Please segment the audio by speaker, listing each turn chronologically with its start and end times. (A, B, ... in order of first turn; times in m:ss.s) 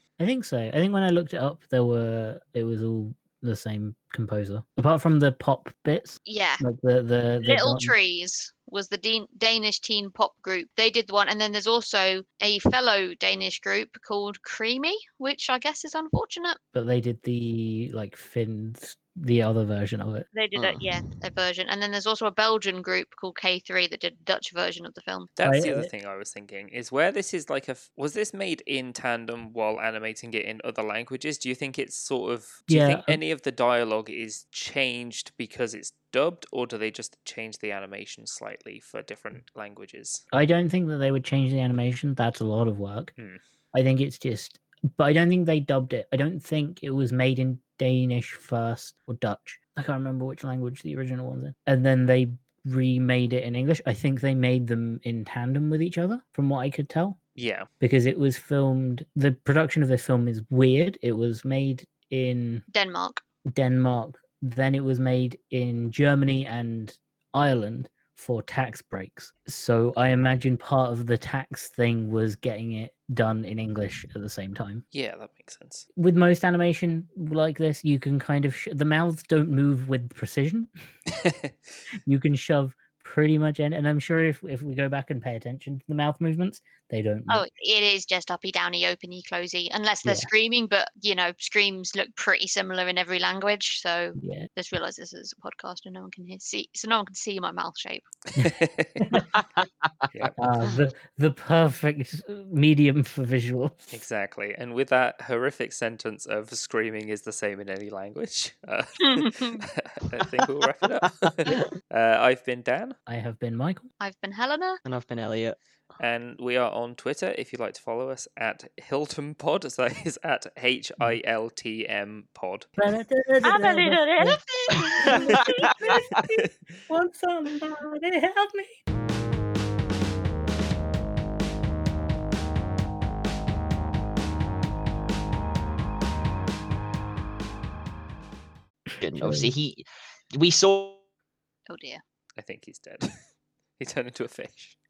0:00.2-0:07.9 A
0:06.2-0:06.6 B
0:07.4-0:16.6 B
0:16.7-0:20.3 A
0:20.3-0:25.3 B
0:20.6-0:20.9 C
0:25.4-0:40.2 D
0:25.4-0:25.9 A
0:32.7-0:33.2 A
0:40.3-0:43.1 A
0:43.7-0:57.2 A
0:57.4-0:57.7 D
0:57.8-1:02.6 A
1:02.7-1:03.2 B
1:03.5-1:14.8 A
1:14.9-1:15.8 D
1:16.0-1:20.7 A
1:21.1-1:21.7 D
1:22.0-1:27.4 A
1:27.3-1:38.1 B
1:30.0-1:30.3 A
1:34.2-1:34.5 A
1:38.4-1:39.0 D
1:38.4-1:39.3 A
1:40.4-1:43.9 A
1:43.9-1:53.0 D
1:49.0-1:49.6 B
1:53.1-1:53.8 A
1:54.0-1:54.8 B
1:54.8-1:55.6 C
1:56.0-2:02.8 D
2:02.8-2:08.8 A
2:03.4-2:04.4 B
2:04.9-2:06.0 C
2:06.1-2:06.5 D
2:18.9-2:19.5 A
2:19.0-2:21.0 C
2:21.7-2:22.0 B
2:22.4-2:23.1 D
2:23.8-2:24.8 D